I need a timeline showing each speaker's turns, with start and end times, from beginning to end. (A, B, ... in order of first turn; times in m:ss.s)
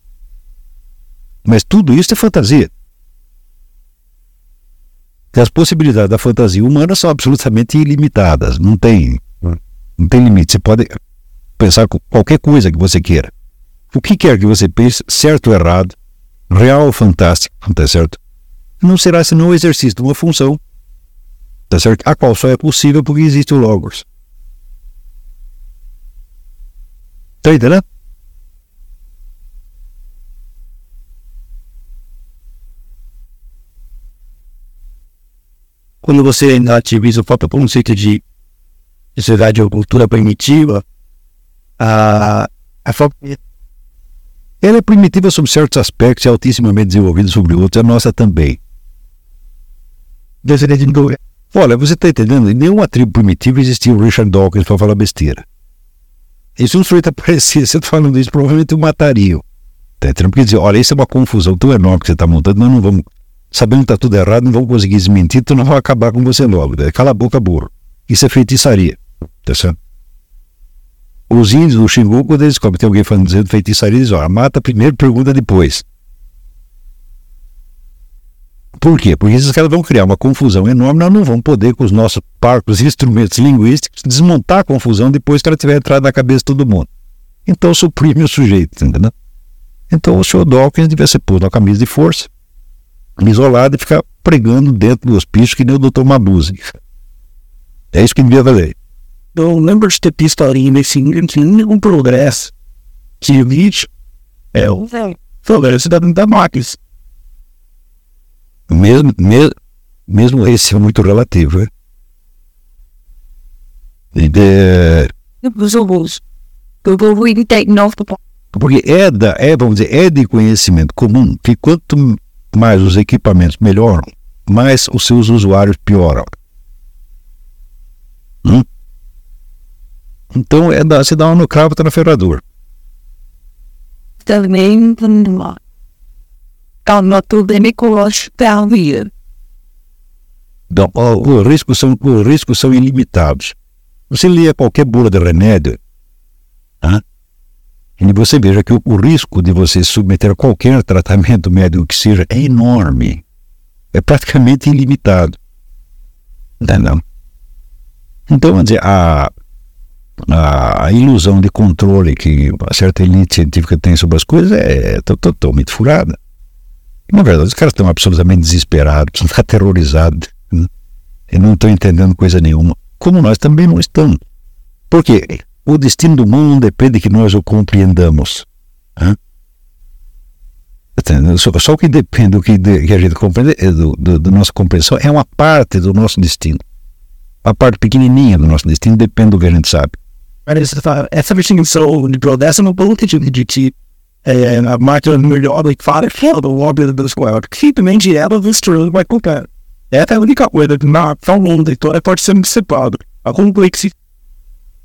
0:01.4-0:02.7 A
0:05.3-0:10.9 A
0:11.6-0:13.3 A
0:13.9-0:16.0 A
0:16.5-0:18.2 A
0:18.8-0:20.6 A
0:21.7-0:24.0 A
0:27.4-0:27.8 A
0:36.0-0:38.2 B
0:39.2-0:40.8 B
0:41.8-0:43.4 B
0:44.6-0:48.6 A
0:50.4-0:51.0 B
0:51.5-0:55.4 A
0:56.6-0:59.4 A
1:00.0-1:09.8 A
1:11.3-1:15.8 A
1:18.8-1:26.9 A
1:27.4-1:29.1 A
1:29.9-1:32.3 A
1:33.2-1:36.7 A
1:37.9-1:38.7 A
1:39.3-1:42.5 B
1:43.2-1:43.9 B
1:44.5-1:44.9 B
1:45.4-1:46.8 B
1:48.7-1:49.5 A
1:50.1-1:51.7 A
1:54.1-1:55.1 A
1:55.4-1:56.2 C
1:56.8-1:58.2 C
1:58.5-2:06.3 A
2:10.3-2:12.4 A
2:14.2-2:15.6 C
2:16.8-2:19.1 C
2:20.7-2:23.5 A
2:24.1-2:25.8 A
2:28.0-2:33.2 A
2:33.9-2:35.4 A
2:36.6-2:37.0 A
2:38.3-2:39.3 A
2:40.3-2:46.2 A
2:47.1-2:50.7 A
2:51.3-2:54.2 A
2:54.9-2:58.4 A
3:01.0-3:06.6 A
3:07.4-3:09.9 A
3:10.5-3:13.7 B
3:14.2-3:23.9 B